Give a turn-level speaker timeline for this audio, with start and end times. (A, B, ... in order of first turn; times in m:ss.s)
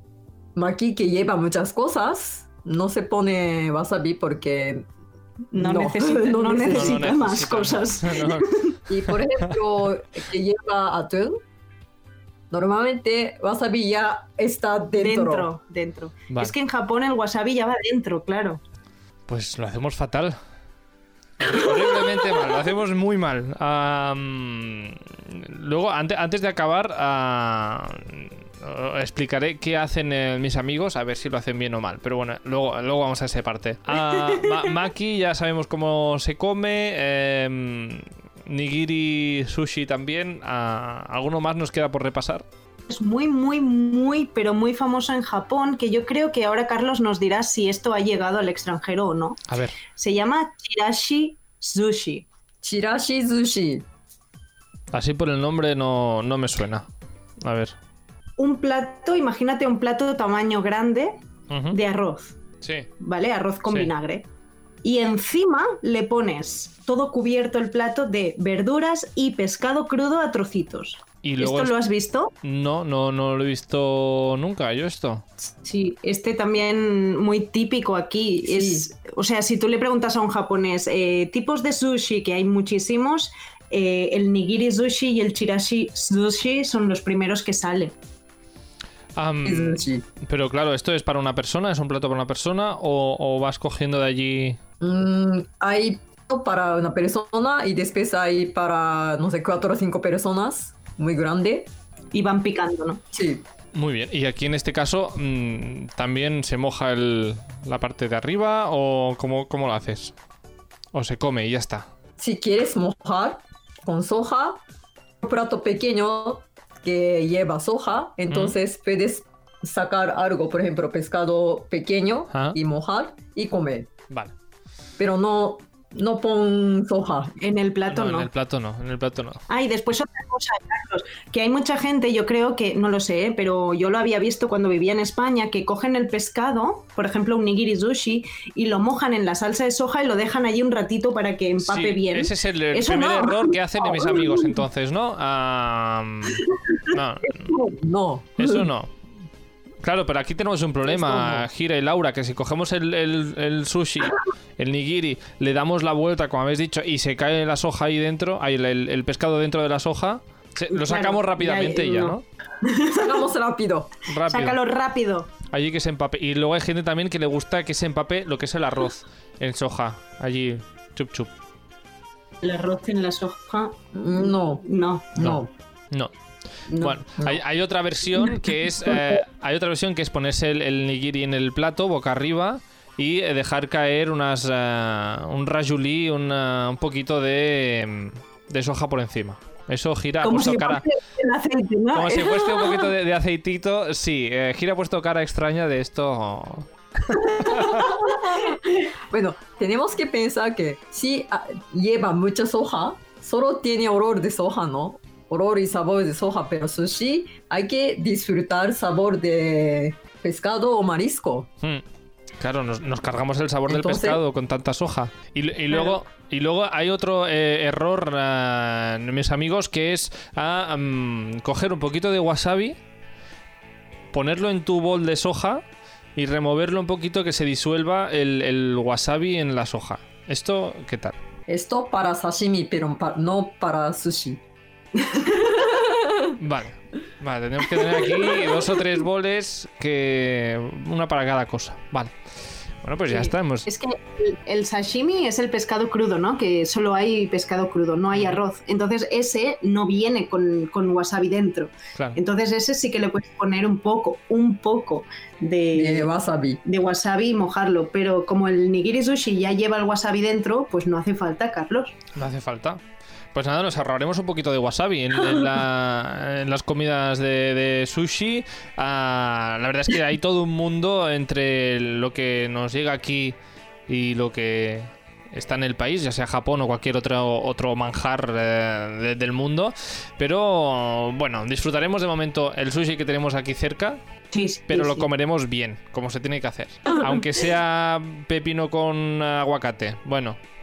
0:00.6-0:04.8 A
0:05.5-0:07.1 A
0:05.5-0:08.8 B
0:06.7-0:08.5 C
0:08.9-0:11.4 A
0:12.5-0:15.5 A
0:15.0-0:18.6 B
0:19.3-0:20.4 C
0:21.4-0:42.4 C
0:34.2-0:34.6 B
0:42.9-0:49.4 B
0:49.5-0:49.8 C
0:49.9-0:52.2 B
0:52.6-0:53.8 A
0:54.9-0:56.9 C
0:57.4-0:57.7 C
0:58.4-1:01.2 B
1:01.5-1:01.8 C
1:01.7-1:02.4 B
1:02.6-1:02.9 C
1:03.0-1:04.2 B
1:04.8-1:12.3 B
1:11.2-1:11.7 C
1:12.4-1:15.2 C
1:15.4-1:27.9 B
1:18.4-1:18.9 A
1:29.2-1:34.6 C
1:29.4-1:30.0 A
1:34.8-1:41.7 A
1:42.1-1:43.0 B
1:43.1-1:43.4 A
1:43.7-1:50.1 C
1:50.9-1:51.9 C
1:52.2-1:54.6 A
1:55.2-2:03.9 A
1:58.3-1:58.6 C
2:02.3-2:02.6 C
2:05.0-2:07.4 A
2:07.4-2:08.3 B
2:07.9-2:09.4 C
2:09.5-2:24.6 B
2:21.6-2:27.5 C
2:27.5-2:28.6 A
2:28.4-2:28.9 C
2:29.8-2:42.2 C
2:30.8-2:31.5 A
2:40.7-2:43.1 B
2:42.9-2:43.9 A
2:44.1-2:44.6 C
2:44.3-2:45.3 B
2:45.5-2:51.3 C
2:52.4-2:55.2 B
2:53.9-2:54.6 A
2:55.1-2:55.5 A
2:55.2-2:56.1 C
2:56.7-3:10.8 C
2:56.8-2:57.4 A
3:10.2-3:12.9 B
3:11.9-3:17.8 C
3:17.4-3:18.1 B
3:18.1-3:18.6 A
3:19.1-3:31.5 A
3:32.4-3:42.8 C
3:33.7-3:34.2 A
3:44.1-3:45.6 C
3:46.2-3:51.2 C
3:51.5-3:54.4 A
3:55.2-3:56.3 A
3:56.4-4:02.1 C
3:57.8-3:58.2 A
4:02.8-4:03.7 C
4:03.1-4:16.1 B
4:08.1-4:08.4 C
4:15.7-4:16.6 A
4:16.6-4:22.0 B
4:22.1-4:22.8 C
4:23.3-4:33.4 C
4:33.9-4:44.0 C
4:44.3-4:45.1 B
4:44.7-4:50.4 C